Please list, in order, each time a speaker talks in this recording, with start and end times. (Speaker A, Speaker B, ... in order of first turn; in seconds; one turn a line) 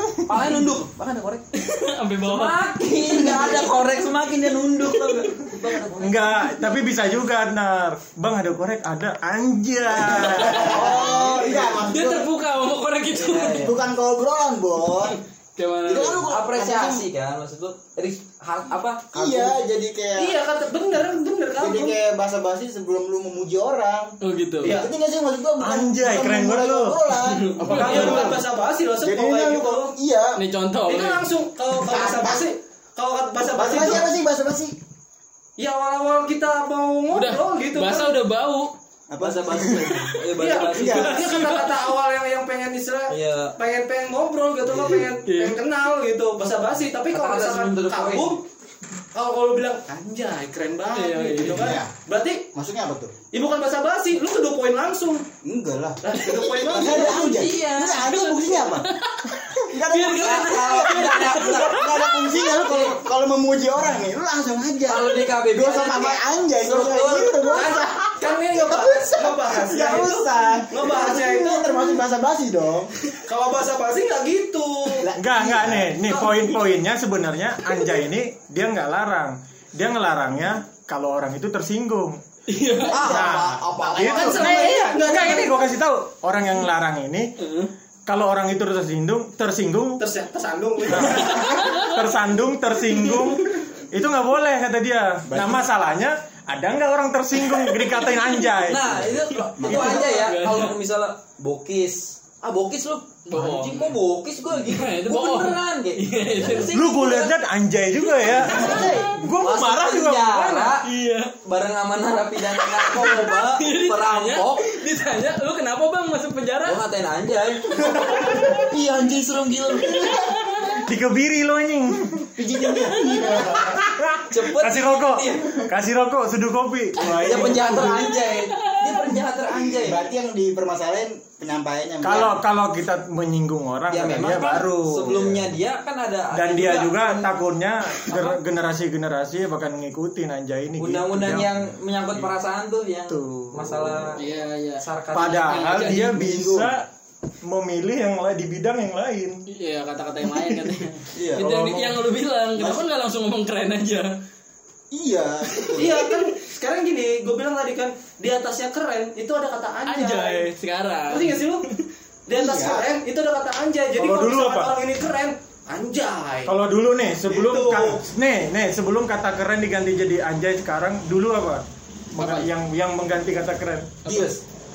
Speaker A: 0.2-1.4
Speaker B: 1.5-2.6
Speaker A: 2.2-6.5
Speaker C: 3.2-3.5
Speaker C: 5.7-6.0
Speaker D: 6.0-10.7
Speaker C: 10.0-12.3
Speaker A: 10.5-11.8
Speaker B: 10.5-11.2
Speaker B: 11.8-13.7
Speaker A: 13.1-13.7
Speaker C: 13.3-15.2
Speaker B: 14.9-16.3
Speaker C: 15.8-17.1
Speaker A: 16.3-19.6
Speaker C: 19.1-20.4
Speaker E: 20.1-22.0
Speaker C: 21.6-24.1
Speaker B: 24.2-24.8
Speaker E: 24.6-24.9
Speaker C: 24.7-28.4
Speaker D: 25.6-27.0
Speaker B: 27.2-28.3
Speaker E: 27.6-29.9
Speaker D: 27.8-28.1
Speaker C: 29.0-30.4
Speaker B: 30.4-31.2
Speaker E: 30.9-34.1
Speaker C: 31.8-32.4
Speaker C: 33.5-34.8
Speaker E: 35.6-38.2
Speaker B: 37.1-38.7
Speaker C: 39.1-40.1
Speaker A: 39.2-41.4
Speaker E: 40.3-48.4
Speaker B: 40.6-41.7
Speaker A: 43.1-43.5
Speaker C: 44.7-45.0
Speaker B: 45.2-45.6
Speaker A: 47.1-48.4
Speaker E: 49.1-52.5
Speaker B: 50.9-51.7
Speaker C: 51.5-51.9
Speaker C: 52.5-53.1
Speaker E: 53.3-55.2
Speaker C: 55.4-58.9
Speaker E: 56.0-57.2
Speaker A: 56.9-58.1
Speaker B: 57.1-62.8
Speaker C: 59.6-72.9
Speaker A: 60.1-62.1
Speaker A: 64.8-67.5
Speaker E: 67.5-71.8
Speaker E: 73.2-75.1
Speaker C: 75.0-76.0
Speaker D: 75.1-82.2
Speaker E: 76.1-76.4
Speaker B: 82.5-83.0
Speaker A: 82.8-84.6
Speaker C: 82.8-85.1
Speaker D: 83.0-87.3
Speaker E: 83.8-85.6
Speaker B: 87.4-87.7
Speaker D: 88.0-90.0
Speaker E: 90.0-91.6
Speaker D: 90.9-99.1
Speaker B: 91.0-92.0
Speaker C: 95.3-95.7
Speaker A: 98.6-107.3
Speaker B: 99.3-100.8
Speaker C: 99.6-100.2
Speaker B: 103.2-104.0
Speaker B: 104.6-106.8
Speaker D: 106.7-110.7
Speaker A: 108.4-110.8
Speaker C: 108.4-109.1
Speaker B: 108.5-109.0
Speaker B: 110.7-111.3
Speaker A: 111.4-114.7
Speaker B: 112.5-116.8
Speaker A: 116.6-120.2
Speaker C: 117.8-118.7
Speaker C: 119.8-120.1
Speaker B: 119.9-120.8
Speaker D: 120.8-122.3
Speaker C: 122.3-123.9
Speaker B: 123.0-123.5
Speaker D: 123.7-128.1
Speaker A: 124.3-125.7
Speaker B: 127.0-129.2
Speaker A: 127.2-130.1
Speaker C: 129.7-132.4
Speaker D: 132.0-135.4
Speaker A: 133.9-137.4
Speaker C: 135.1-135.3
Speaker D: 136.3-141.6
Speaker A: 138.1-138.4
Speaker A: 140.8-144.2
Speaker D: 143.1-144.2
Speaker B: 144.2-146.2
Speaker A: 144.8-145.8
Speaker D: 145.1-146.9
Speaker C: 145.9-146.7
Speaker D: 147.4-149.4
Speaker B: 149.5-154.1
Speaker D: 150.3-150.6
Speaker C: 151.1-151.5
Speaker D: 151.4-152.0
Speaker C: 152.6-152.8
Speaker C: 154.9-156.1
Speaker E: 155.8-160.5
Speaker B: 159.9-161.8
Speaker E: 161.1-161.6
Speaker E: 162.3-166.5
Speaker C: 162.3-162.9
Speaker D: 164.0-164.7
Speaker D: 166.4-174.1
Speaker E: 167.3-168.0
Speaker B: 172.2-172.5
Speaker A: 174.1-174.3